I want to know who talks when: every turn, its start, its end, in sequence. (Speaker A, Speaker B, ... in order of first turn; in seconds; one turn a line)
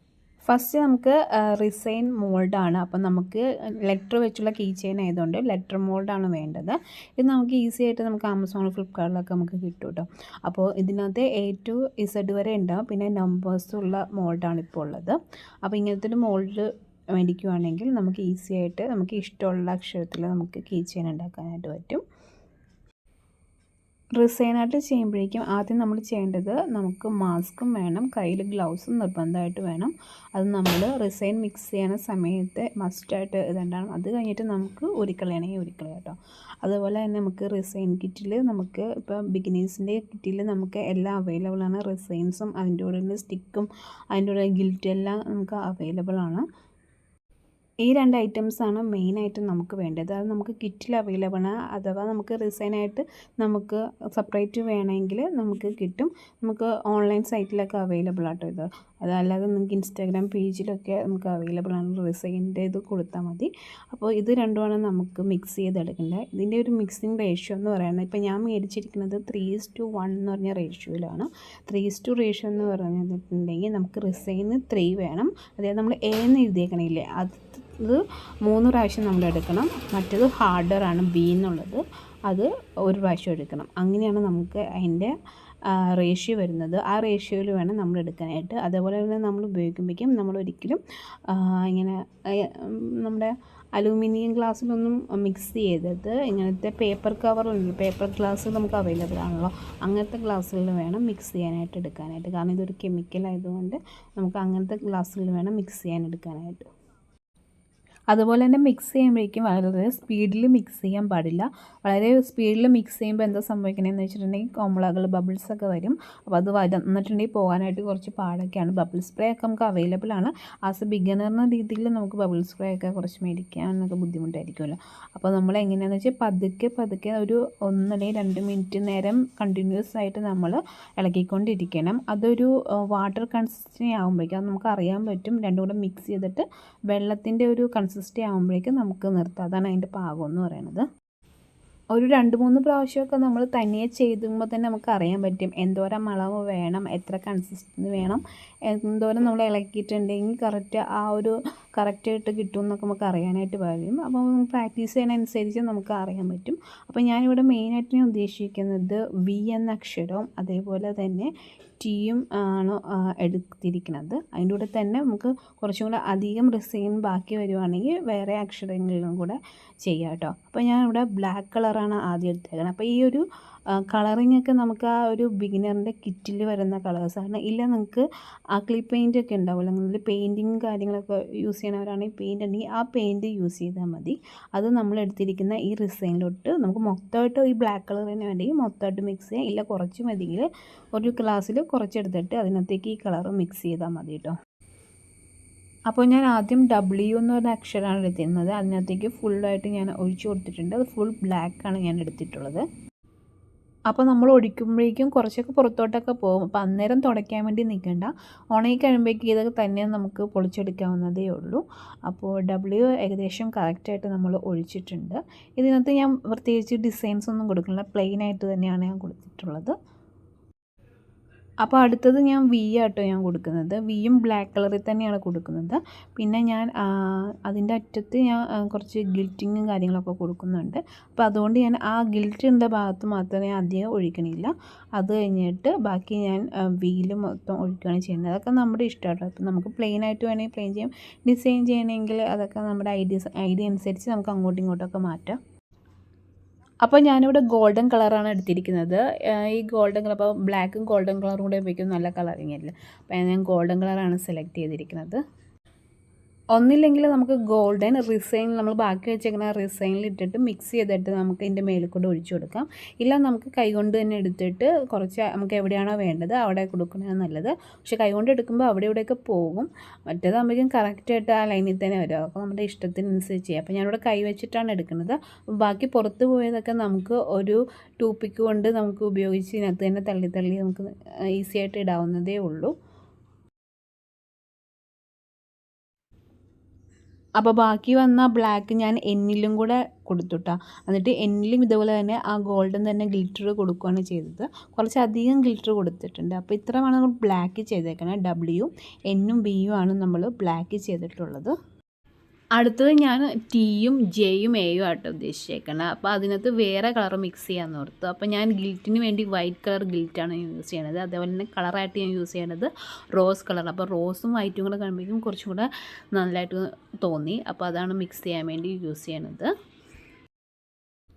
Speaker A: 0.4-22.0
Speaker A: 24.2-46.4
Speaker A: 47.8-106.7
Speaker A: 108.1-140.8
Speaker A: 141.9-173.2
Speaker A: 173.7-194.3
Speaker A: 195.9-202.7
Speaker A: 203.9-219.8
Speaker A: 221.6-245.4
Speaker A: 246.8-255.2
Speaker A: 256.5-282.7
Speaker A: 287.4-301.6
Speaker A: 302.6-319.5